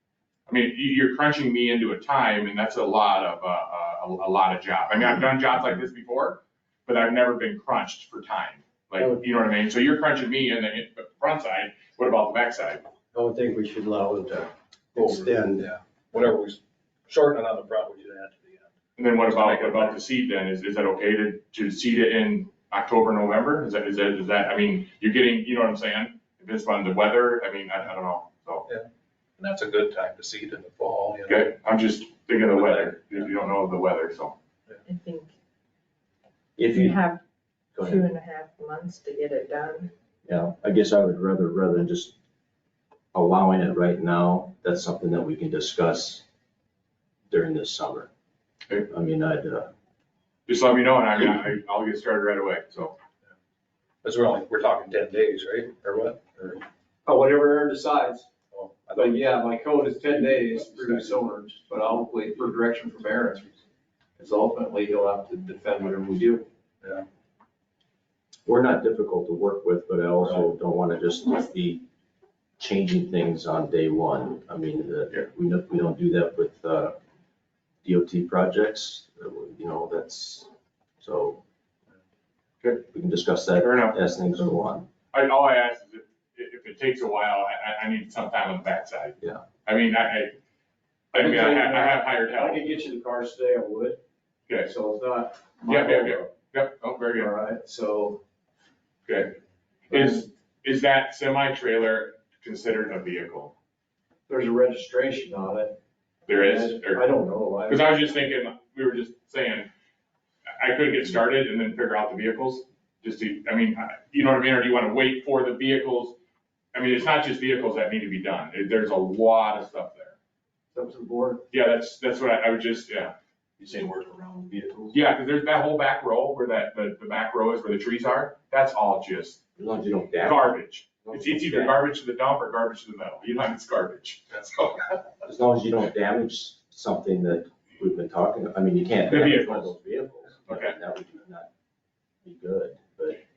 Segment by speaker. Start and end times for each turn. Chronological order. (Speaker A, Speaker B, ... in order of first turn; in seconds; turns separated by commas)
Speaker A: 0.5-12.8, Speaker B: 13.1-15.6, Speaker C: 14.9-18.7, Speaker A: 19.0-28.6, Speaker C: 19.2-20.0, Speaker C: 28.7-31.5, Speaker A: 31.3-34.3, Speaker C: 32.5-33.3, Speaker D: 34.9-35.3, Speaker E: 36.6-37.0, Speaker D: 36.7-37.2, Speaker E: 37.8-38.0, Speaker D: 37.8-39.9, Speaker E: 40.2-42.1, Speaker E: 43.1-46.2, Speaker E: 47.3-48.1, Speaker E: 48.9-49.7, Speaker A: 50.5-53.0, Speaker C: 54.0-56.6, Speaker F: 57.0-58.3, Speaker C: 58.5-59.5, Speaker F: 58.9-63.6, Speaker C: 60.5-61.2, Speaker F: 64.2-66.5, Speaker E: 68.5-71.8, Speaker E: 72.6-77.0, Speaker E: 77.8-80.5, Speaker E: 81.0-81.4, Speaker E: 82.9-84.9, Speaker A: 83.6-84.0, Speaker A: 85.1-90.3, Speaker A: 91.1-92.6, Speaker F: 91.1-94.0, Speaker F: 94.6-96.3, Speaker A: 95.7-97.3, Speaker F: 97.1-98.2, Speaker A: 99.1-99.4, Speaker F: 99.9-100.3, Speaker A: 99.9-103.5, Speaker F: 104.3-105.8, Speaker A: 106.3-107.1, Speaker F: 106.3-108.3, Speaker A: 107.7-109.7, Speaker A: 110.6-116.1, Speaker A: 116.7-120.2, Speaker F: 120.7-121.4, Speaker A: 121.5-123.1, Speaker A: 124.9-129.4, Speaker E: 129.6-131.8, Speaker A: 130.2-135.0, Speaker E: 135.2-141.5, Speaker A: 139.1-139.8, Speaker A: 140.5-140.7, Speaker E: 142.2-143.2